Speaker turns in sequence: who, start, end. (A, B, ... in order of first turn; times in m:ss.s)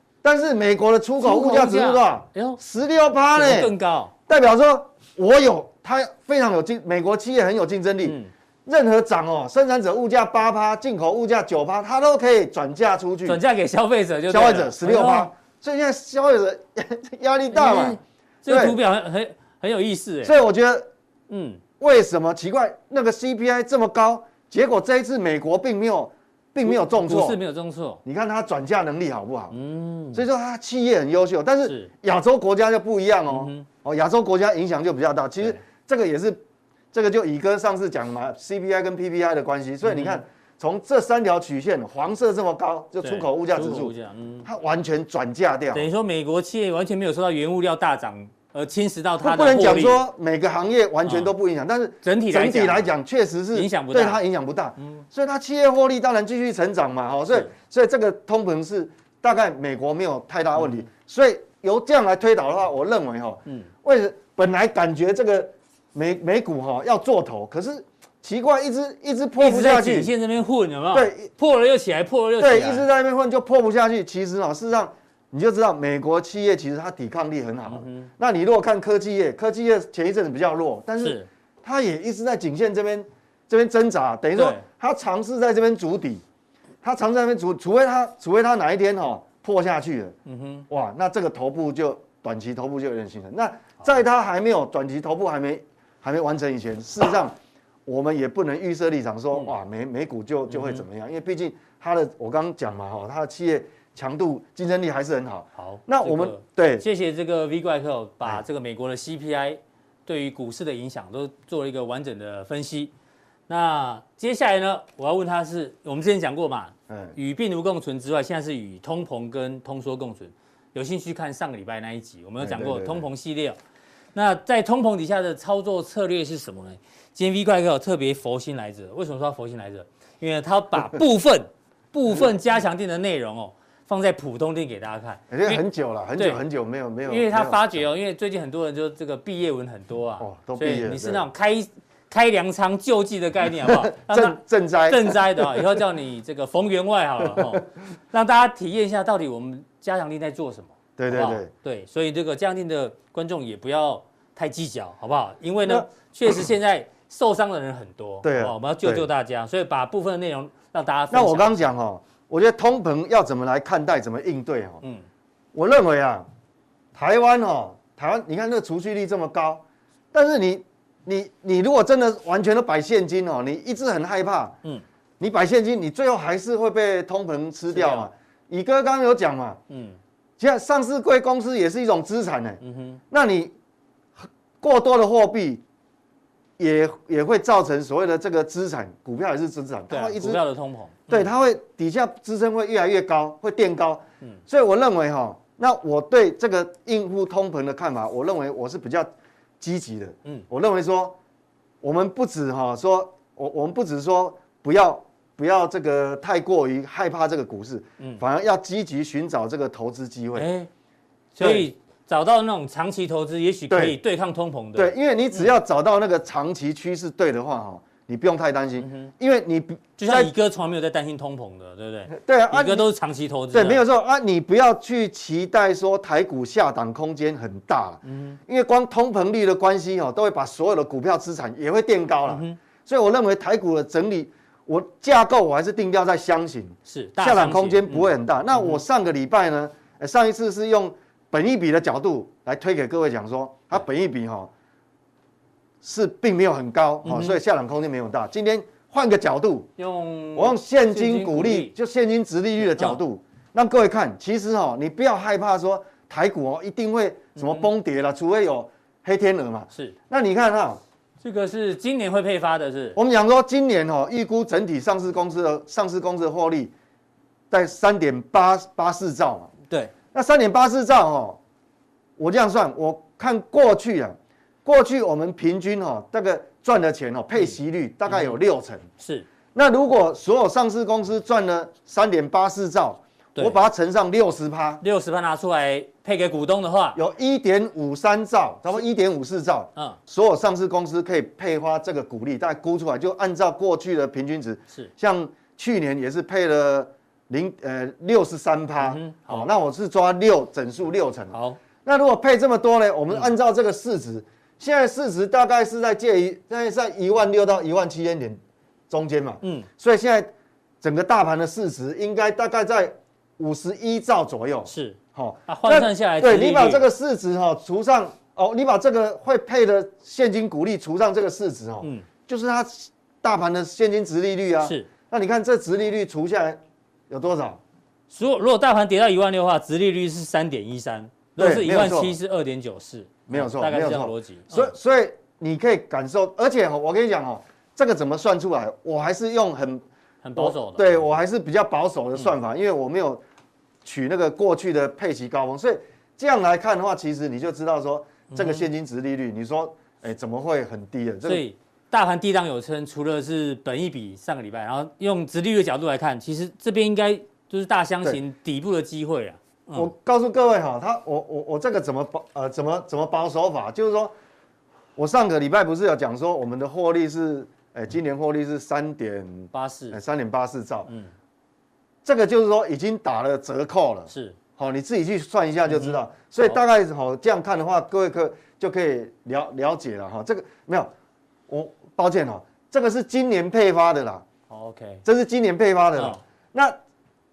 0:00.2-0:03.7 A
0:01.2-0:02.6 B
0:03.4-0:04.1 B
0:04.3-0:13.4 A
0:08.0-0:08.3 B
0:13.3-0:15.3 B
0:14.3-0:18.8 A
0:17.5-0:20.4 B
0:20.2-0:20.9 A
0:21.3-0:21.6 B
0:21.8-0:27.4 A
0:26.6-0:28.0 B
0:28.0-0:29.6 A
0:29.5-0:30.2 B
0:30.1-0:36.4 A
0:31.6-0:31.9 B
0:33.3-0:33.7 B
0:36.9-0:43.9 A
0:39.8-0:40.2 B
0:43.0-0:44.5 B
0:44.4-0:45.9 A
0:45.7-0:50.0 B
0:49.2-1:10.1 A
0:51.0-0:51.3 B
0:52.0-0:52.9 B
0:53.5-0:54.2 B
1:00.6-1:00.8 B
1:09.4-1:12.9 B
1:10.9-1:11.3 A
1:12.4-1:26.2 A
1:17.7-1:18.1 B
1:21.0-1:21.3 B
1:24.4-1:24.6 B
1:26.8-1:30.2 A
1:30.3-1:30.6 B
1:30.7-1:37.4 A
1:37.9-1:46.8 A
1:40.5-1:40.8 B
1:45.6-1:52.9 B
1:53.5-2:03.6 B
1:56.9-1:57.2 A
2:02.4-2:03.1 A
2:04.2-2:15.6 B
2:15.3-2:17.8 A
2:17.1-2:41.6 B
2:20.2-2:21.3 A
2:23.6-2:25.8 A
2:27.4-2:27.6 A
2:31.0-2:31.5 A
2:38.2-2:39.1 A
2:41.1-2:44.8 A
2:45.5-2:46.3 A
2:47.0-2:54.6 A
2:55.2-2:59.6 A
2:57.7-2:58.1 B
2:59.7-3:00.0 B
3:00.4-3:02.6 A
3:02.6-3:03.0 B
3:03.1-3:03.5 A
3:04.6-3:05.6 A
3:06.6-3:10.4 A
3:09.9-3:11.3 B
3:11.1-3:21.2 A
3:21.8-3:30.5 A
3:30.4-3:30.7 B
3:31.4-3:35.5 B
3:31.4-3:31.7 A
3:33.7-3:34.0 A
3:34.8-3:40.3 A
3:38.8-3:39.1 B
3:40.0-3:43.8 B
3:42.1-3:42.9 A
3:43.5-4:04.5 A
3:48.0-3:48.4 B
3:52.3-3:52.6 B
3:56.9-3:58.8 B
4:05.8-4:09.7 A
4:07.0-4:07.4 B
4:09.8-4:11.7 B
4:10.4-4:20.8 A
4:17.4-4:17.7 B
4:21.2-4:23.0 B
4:23.0-4:26.7 A
4:27.5-4:29.5 A
4:30.1-4:31.4 A
4:32.2-4:38.9 A
4:38.1-4:38.4 B
4:39.0-4:39.3 B
4:39.5-4:44.8 A
4:44.8-4:47.0 B
4:47.0-5:10.3 A
4:58.8-4:59.5 B
5:01.3-5:01.6 B
5:09.4-5:09.7 B
5:10.8-5:26.6 A
5:14.7-5:16.8 B
5:21.8-5:22.1 B
5:24.6-5:24.9 B
5:27.1-5:27.6 A
5:28.1-5:34.7 B
5:31.4-5:32.2 A
5:33.3-5:39.8 A
5:40.2-5:41.1 B
5:40.4-5:43.2 A
5:43.8-5:51.4 A
5:48.3-5:48.6 B
5:51.2-5:59.9 B
5:59.7-6:04.1 A
6:05.0-6:10.9 A
6:09.5-6:10.0 B
6:12.0-6:20.9 A
6:14.1-6:14.4 B
6:15.7-6:16.6 B
6:21.5-6:24.2 A
6:24.5-6:25.0 B
6:25.0-6:26.8 A